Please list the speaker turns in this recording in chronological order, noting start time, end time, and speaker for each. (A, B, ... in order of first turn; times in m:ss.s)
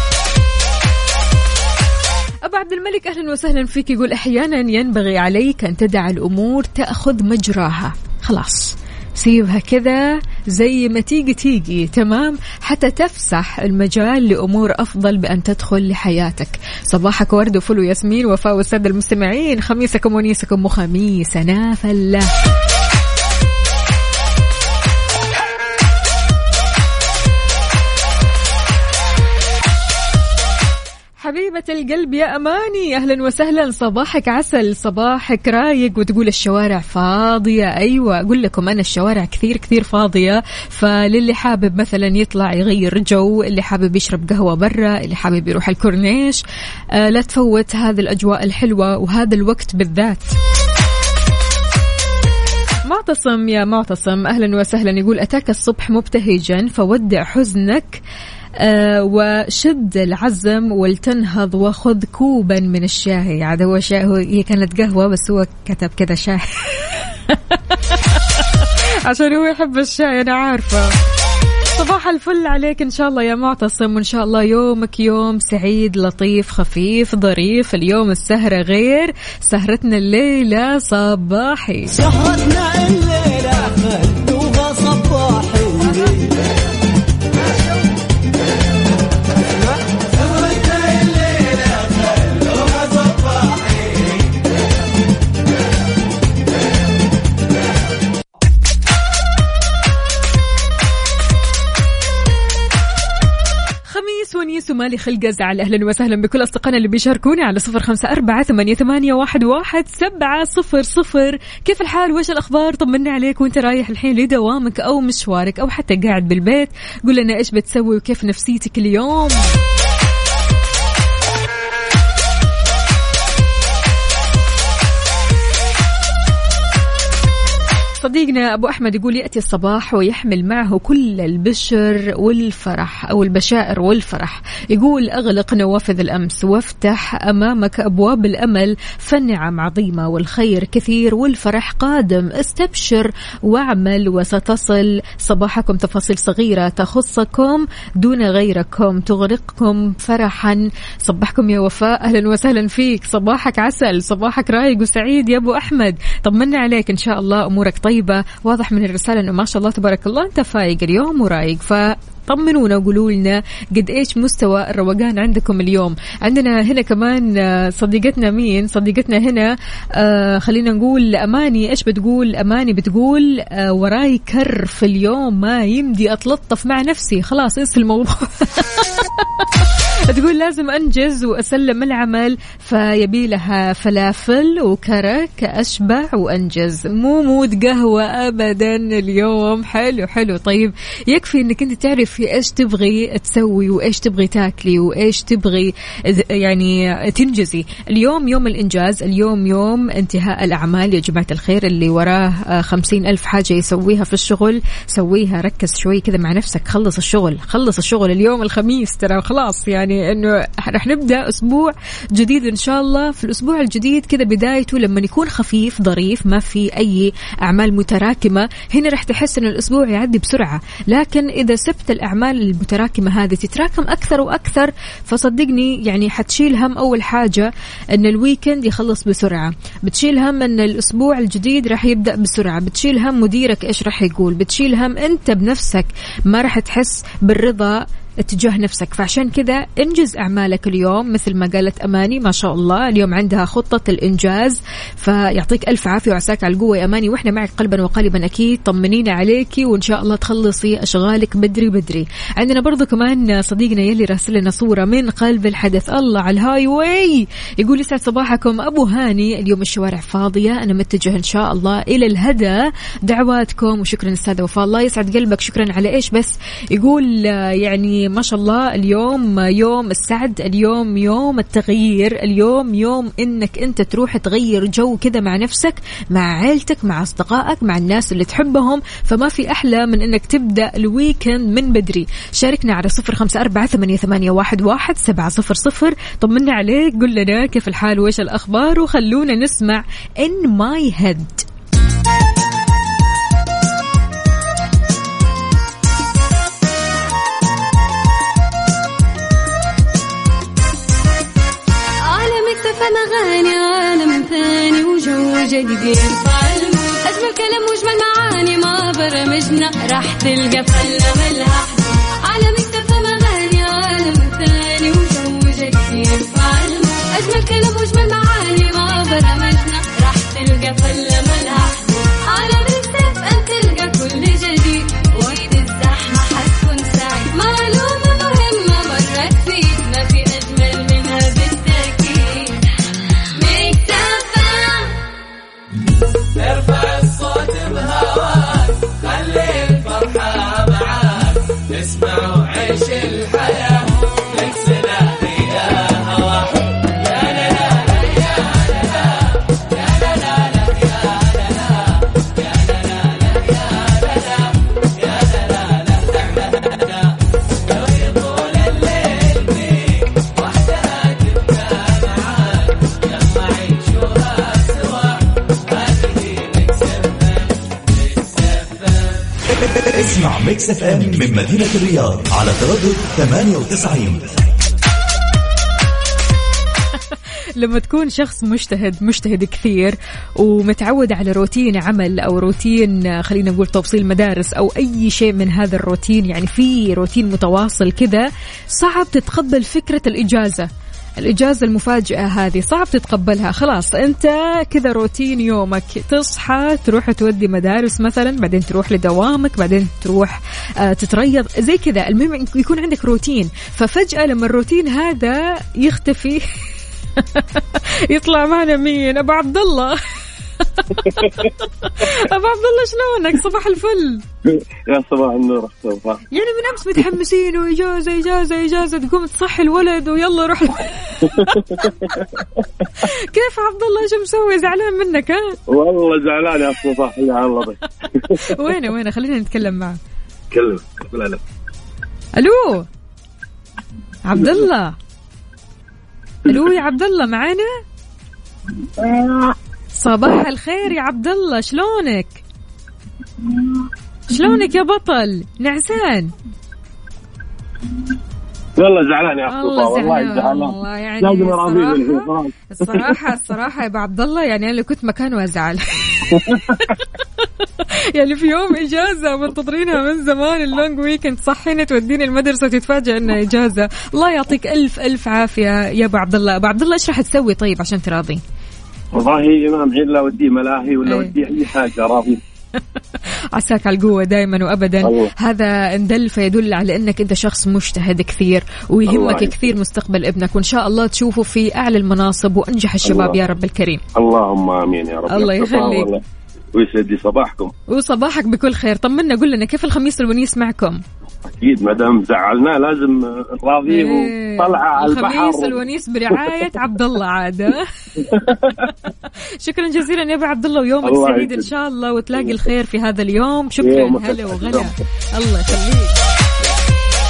0:02.4-0:22.3 A
0:31.2-0:46.4 A
0:46.9-0:50.3 A
0:52.8-0:58.0 A
0:58.6-1:10.9 A
1:11.8-1:22.0 A
1:21.9-1:26.3 B
1:30.6-1:31.0 B
1:43.9-1:59.4 A
2:08.0-4:51.4 A
5:02.0-5:35.0 C
6:09.9-6:14.4 D
6:17.1-6:46.4 A
6:47.2-6:50.0 A
6:50.6-6:54.2 A
6:54.4-6:56.2 E
6:56.3-7:01.9 A
7:01.3-7:02.6 E
7:03.0-7:05.6 A
7:05.7-7:08.6 E
7:08.3-7:10.0 A
7:10.5-7:11.4 E
7:12.4-7:12.9 A
7:14.2-7:15.0 A
7:16.5-7:17.7 A
7:19.0-7:19.5 E
7:20.0-7:22.4 A
7:24.3-7:26.3 A
7:28.8-7:33.2 E
7:29.5-7:48.4 A
7:36.3-7:36.9 E
7:49.1-7:52.4 E
7:51.0-7:51.3 A
7:53.5-8:04.0 A
7:55.0-7:55.3 E
7:59.0-7:59.7 E
8:03.0-8:03.4 E
8:04.2-8:06.2 E
8:05.3-8:06.1 A
8:06.7-8:07.7 E
8:07.9-8:11.0 A
8:11.5-8:15.8 E
8:13.8-8:17.9 A
8:18.2-8:18.9 E
8:19.6-8:26.1 A
8:21.0-8:21.7 E
8:23.8-8:24.9 E